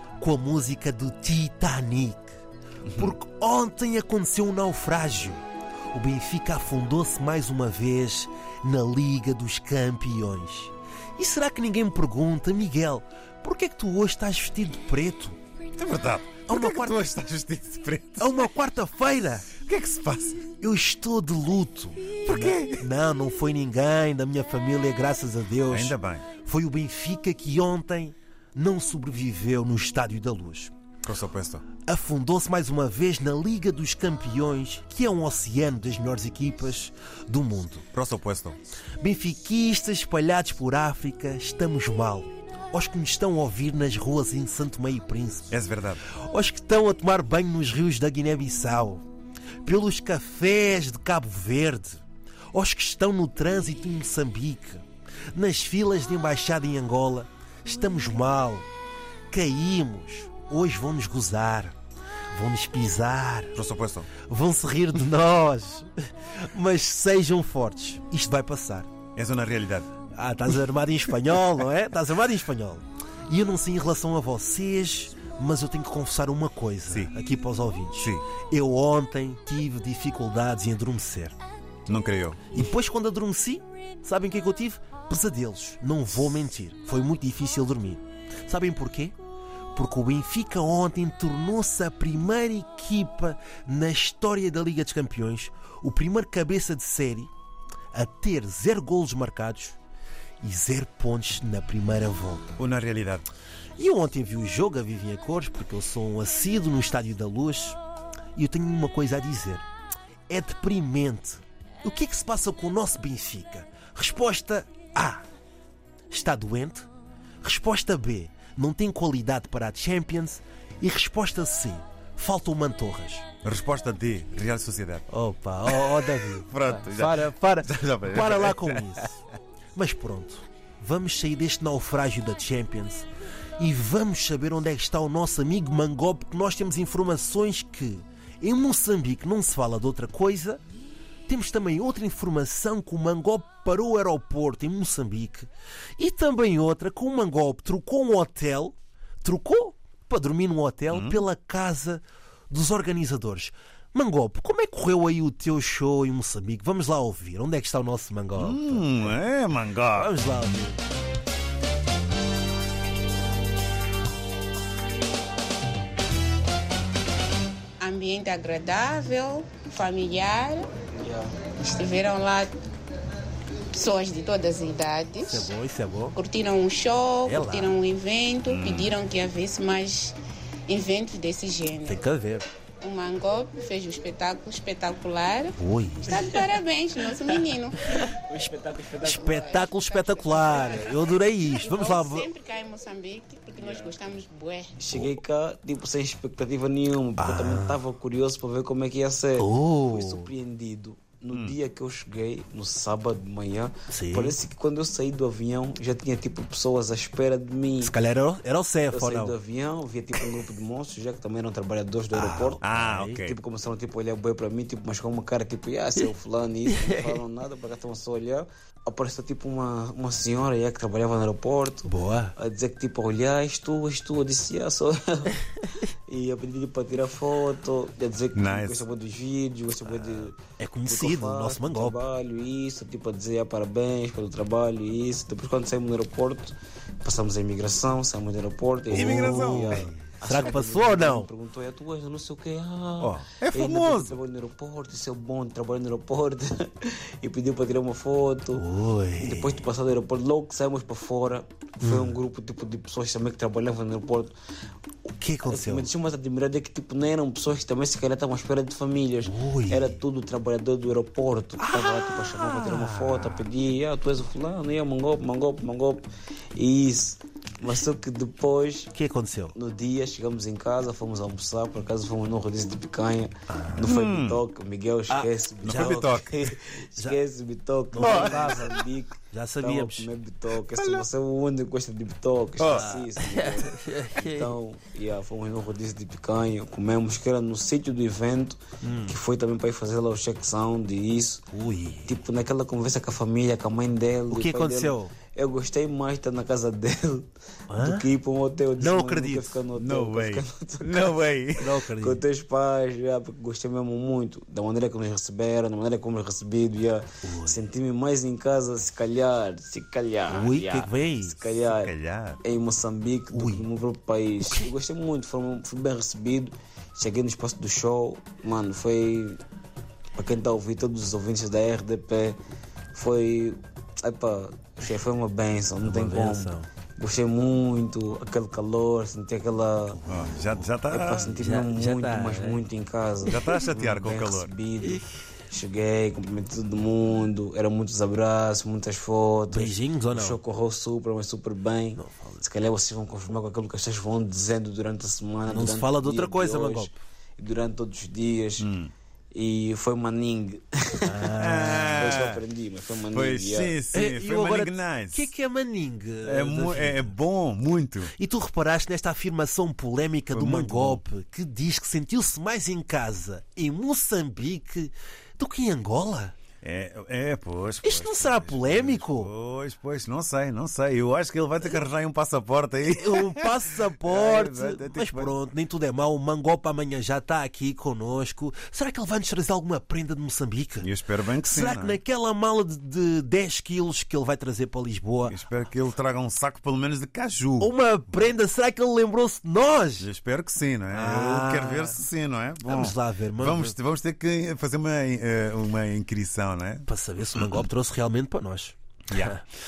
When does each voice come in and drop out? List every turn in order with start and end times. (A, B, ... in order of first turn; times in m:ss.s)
0:00.2-0:02.4 A
0:02.9-0:03.1 B
0:03.0-0:15.4 A
0:15.7-0:18.5 B
0:16.5-0:17.0 A
0:18.2-0:19.5 A
0:19.5-0:20.5 B
0:20.5-0:30.7 A
0:22.2-0:22.9 B
0:25.7-0:26.3 B
0:31.0-0:31.7 B
0:31.8-0:37.9 A
0:37.9-0:38.6 B
0:39.0-0:45.6 A
0:45.5-0:46.0 B
0:46.1-0:49.0 A
0:49.6-0:58.7 A
0:59.3-1:01.8 A
1:02.3-1:03.6 A
1:03.6-1:04.1 B
1:04.2-1:08.9 A
1:09.2-1:09.9 B
1:10.1-1:21.4 A
1:16.9-1:17.1 B
1:18.0-1:18.2 B
1:21.9-1:22.6 B
1:22.5-1:29.2 A
1:29.7-1:37.3 A
1:37.9-1:39.8 A
1:40.4-1:42.6 A
1:42.6-1:43.3 B
1:43.8-1:47.8 A
1:48.4-1:49.6 A
1:50.3-1:55.3 A
1:56.1-1:56.9 A
1:57.4-2:03.2 A
2:03.4-2:05.1 B
2:05.1-2:09.2 A
2:05.7-2:09.0 B
2:09.8-2:13.1 A
2:13.6-2:20.6 A
2:21.3-2:39.1 A
2:30.9-2:31.2 B
2:38.4-2:40.1 B
2:39.9-2:40.8 A
2:47.8-2:50.7 C
2:51.0-2:51.3 D
2:51.5-2:52.5 C
2:53.7-2:55.5 C
2:55.2-2:56.2 A
2:56.2-3:00.2 C
2:57.2-2:57.8 A
2:58.5-2:58.9 B
3:00.7-3:02.0 C
3:01.8-3:02.5 A
3:02.8-3:07.8 C
3:05.6-3:06.3 A
3:08.3-3:09.0 D
3:09.0-3:12.3 A
3:09.0-3:14.8 C
3:14.8-3:27.9 D
3:17.2-3:17.8 A
3:19.4-3:20.3 A
3:23.9-3:24.4 A
3:27.8-3:29.3 A
3:28.9-3:32.6 D
3:32.1-3:33.2 A
3:32.6-3:33.4 B
3:33.2-3:45.4 D
3:41.9-3:42.4 A
3:46.1-4:08.6 D
3:48.3-3:48.8 B
3:49.9-3:50.3 B
3:50.6-3:52.0 A
3:58.9-3:59.9 B
3:58.9-4:01.3 A
4:03.0-4:04.2 B
4:08.5-4:09.7 A
4:09.2-4:14.4 D
4:11.8-4:12.2 A
4:15.1-4:15.9 A
4:15.5-4:28.9 D
4:19.2-4:20.0 A
4:21.6-4:23.4 A
4:28.9-4:29.6 A
4:29.5-4:51.5 D
4:33.5-4:33.9 A
4:33.9-4:34.4 B
4:35.1-4:36.2 A
4:35.6-4:36.3 B
4:37.9-4:38.8 A
4:38.0-4:38.6 B
4:39.3-4:40.1 A
4:40.8-4:41.1 B
4:42.6-4:43.0 B
4:42.6-4:44.5 A
4:48.8-4:49.2 A
4:51.5-4:52.2 A
4:52.1-5:01.2 D
4:54.3-4:55.1 A
4:57.7-4:58.1 A
4:58.8-4:59.6 A
4:59.8-5:01.7 B
5:01.6-5:02.2 A
5:01.9-5:19.4 D
5:07.2-5:07.6 A
5:10.3-5:11.4 A
5:11.7-5:12.4 B
5:13.3-5:13.7 A
5:14.4-5:14.7 A
5:20.2-5:22.4 D
5:22.9-5:30.0 D
5:25.8-5:26.7 A
5:29.9-5:30.7 A
5:30.1-5:31.3 B
5:30.9-5:48.7 D
5:31.4-5:32.6 A
5:33.2-5:34.5 B
5:39.5-5:40.4 A
5:42.0-5:42.5 A
5:45.5-5:46.9 A
5:48.6-5:48.9 B
5:49.3-5:51.3 D
5:51.0-5:52.1 A
5:51.3-5:52.4 B
5:51.9-5:53.8 D
5:53.1-5:55.3 B
5:53.9-5:57.1 A
5:56.2-5:58.1 B
5:58.1-6:06.4 A
6:00.3-6:01.0 B
6:06.6-6:15.4 B
6:07.8-6:09.3 A
6:12.9-6:20.9 A
6:20.8-6:22.0 B
6:21.4-6:25.3 A
6:25.3-6:27.7 B
6:27.6-6:30.1 A
6:30.0-6:36.9 B
6:30.9-6:32.0 A
6:32.6-6:33.8 A
6:36.9-6:39.4 A
6:39.1-6:39.4 B